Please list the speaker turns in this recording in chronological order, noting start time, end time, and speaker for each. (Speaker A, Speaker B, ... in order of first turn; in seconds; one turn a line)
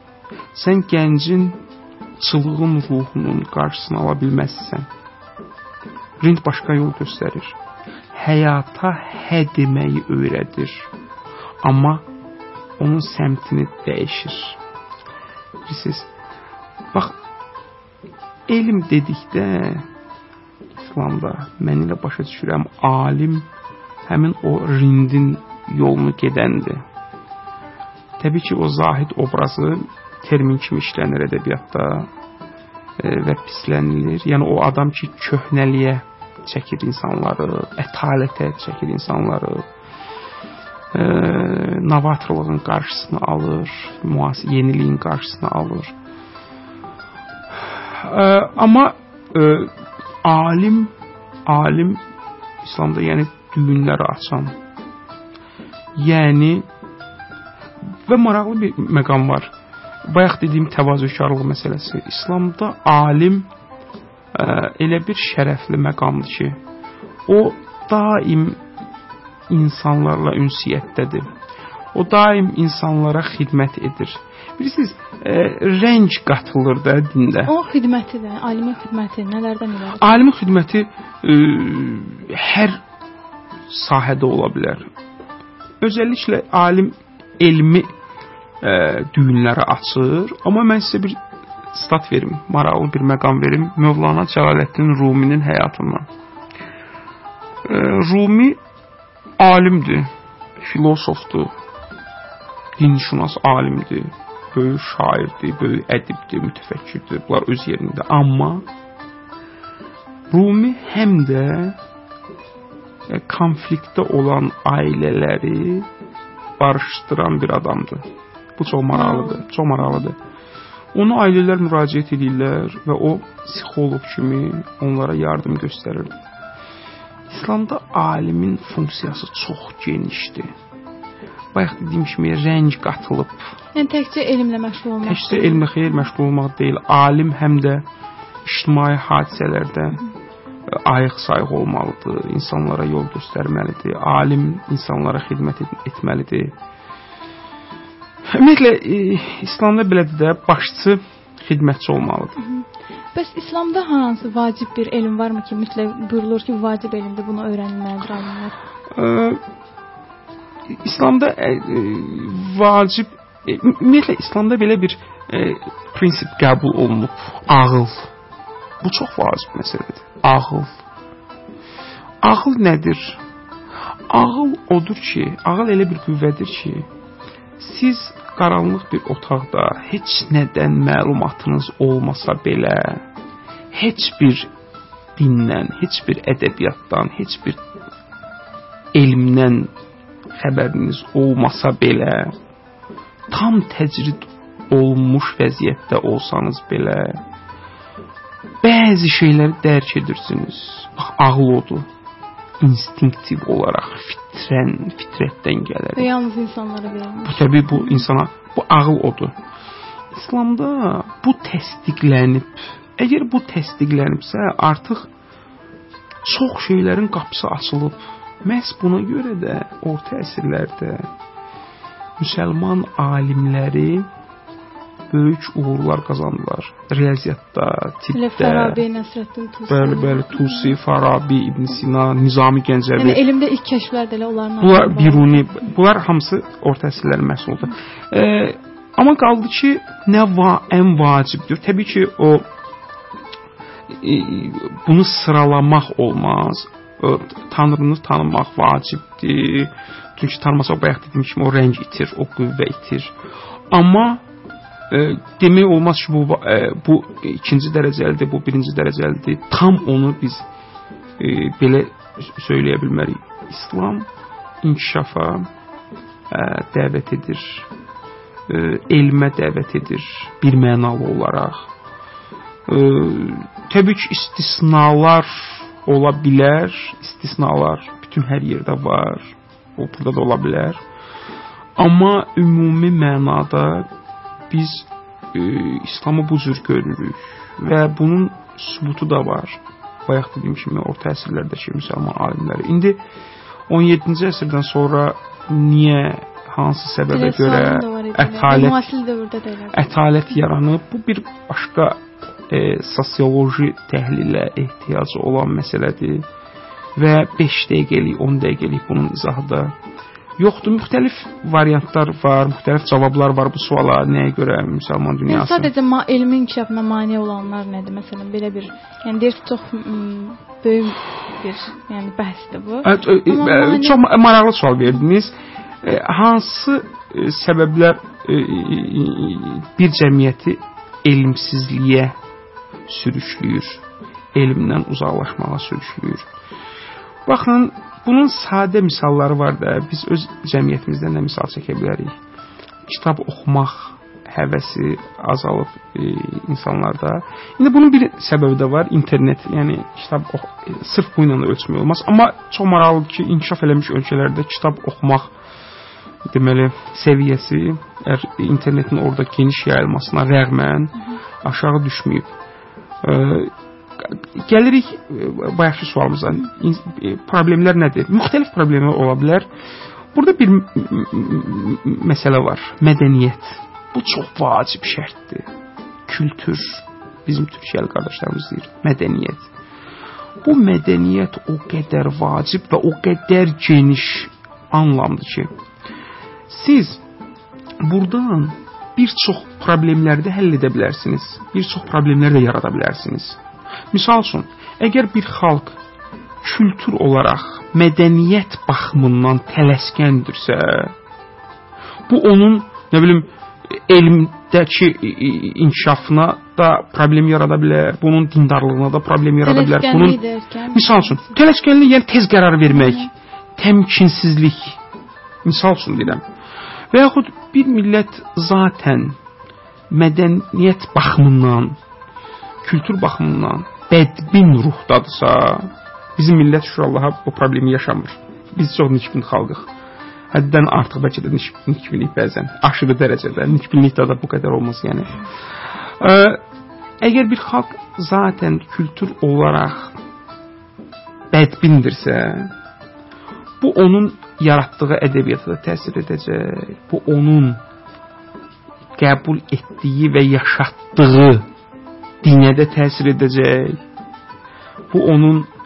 Speaker A: 0.5-1.6
Speaker A: 2.2-4.9
Speaker A: 6.2-7.6
Speaker A: 8.1-10.9
Speaker A: 11.6-12.1
Speaker A: 12.8-14.6
Speaker A: 15.7-16.1
Speaker A: 18.5-19.9
Speaker A: 20.8-23.5
Speaker A: 24.1-26.9
Speaker A: 28.2-32.1
Speaker A: 33.0-39.7
Speaker A: 40.9-46.0
Speaker A: 47.5-50.9
Speaker A: 51.5-52.0
Speaker A: 52.6-54.6
Speaker A: 56.0-56.7
Speaker A: 58.1-59.5
Speaker A: 60.1-63.5
Speaker A: 64.3-66.6
Speaker A: 67.3-68.6
Speaker A: 69.5-71.3
Speaker A: 71.9-77.5
Speaker B: 77.5-80.2
Speaker A: 80.0-82.8
Speaker A: 83.7-84.9
Speaker A: 85.8-87.9
Speaker A: 88.6-91.2
Speaker A: 91.7-96.1
Speaker A: 97.7-98.6
Speaker A: 99.4-101.5
Speaker A: 102.8-108.7
Speaker A: 110.3-111.8
Speaker A: 113.1-115.9
Speaker A: 116.6-120.2
Speaker B: 118.9-119.4
Speaker A: 120.9-126.2
Speaker A: 127.3-130.5
Speaker A: 131.5-133.4
Speaker B: 133.8-135.9
Speaker A: 135.0-137.9
Speaker A: 138.4-140.0
Speaker A: 140.7-146.6
Speaker A: 148.3-152.4
Speaker B: 152.4-158.6
Speaker A: 158.9-159.4
Speaker A: 160.7-168.1
Speaker A: 168.8-170.8
Speaker A: 172.2-173.2
Speaker A: 174.1-176.9
Speaker A: 177.6-183.1
Speaker A: 183.7-184.5
Speaker A: 185.2-187.6
Speaker A: 188.9-189.7
Speaker A: 190.3-192.4
Speaker A: 193.3-197.2
Speaker A: 198.6-201.9
Speaker A: 202.6-206.1
Speaker B: 206.0-208.1
Speaker A: 207.2-209.4
Speaker A: 210.1-215.1
Speaker A: 216.2-221.1
Speaker A: 222.2-224.1
Speaker A: 225.1-228.8
Speaker B: 228.1-230.8
Speaker A: 229.7-233.2
Speaker B: 233.0-235.4
Speaker A: 234.6-242.5
Speaker A: 243.9-253.2
Speaker A: 253.7-254.2
Speaker A: 254.9-260.5
Speaker A: 261.2-264.1
Speaker A: 264.6-265.5
Speaker A: 266.3-267.7
Speaker A: 268.5-271.7
Speaker A: 272.7-280.8
Speaker A: 281.8-283.9
Speaker A: 284.5-293.0
Speaker A: 293.7-298.9
Speaker B: 297.1-299.9
Speaker A: 299.7-306.3
Speaker A: 307.0-309.8
Speaker A: 310.4-315.7
Speaker B: 315.3-324.0
Speaker A: 322.8-332.2
Speaker A: 332.9-333.8
Speaker A: 334.4-336.3
Speaker A: 337.3-342.1
Speaker A: 342.9-355.3
Speaker A: 356.3-362.3
Speaker A: 363.0-369.5
Speaker A: 370.1-375.5
Speaker A: 376.1-379.5
Speaker A: 380.4-385.5
Speaker A: 386.5-387.0
Speaker A: 387.8-393.4
Speaker A: 393.9-395.8
Speaker A: 396.4-400.9
Speaker A: 402.1-410.2
Speaker B: 409.4-411.4
Speaker A: 410.7-414.8
Speaker B: 412.7-413.1
Speaker A: 415.4-416.2
Speaker A: 416.9-419.2
Speaker A: 419.9-421.8
Speaker A: 422.6-429.7
Speaker A: 430.3-435.2
Speaker A: 435.8-436.4
Speaker A: 437.0-440.0
Speaker A: 441.3-442.5
Speaker A: 443.6-447.6
Speaker A: 449.0-451.5
Speaker A: 452.2-453.8
Speaker A: 454.9-455.5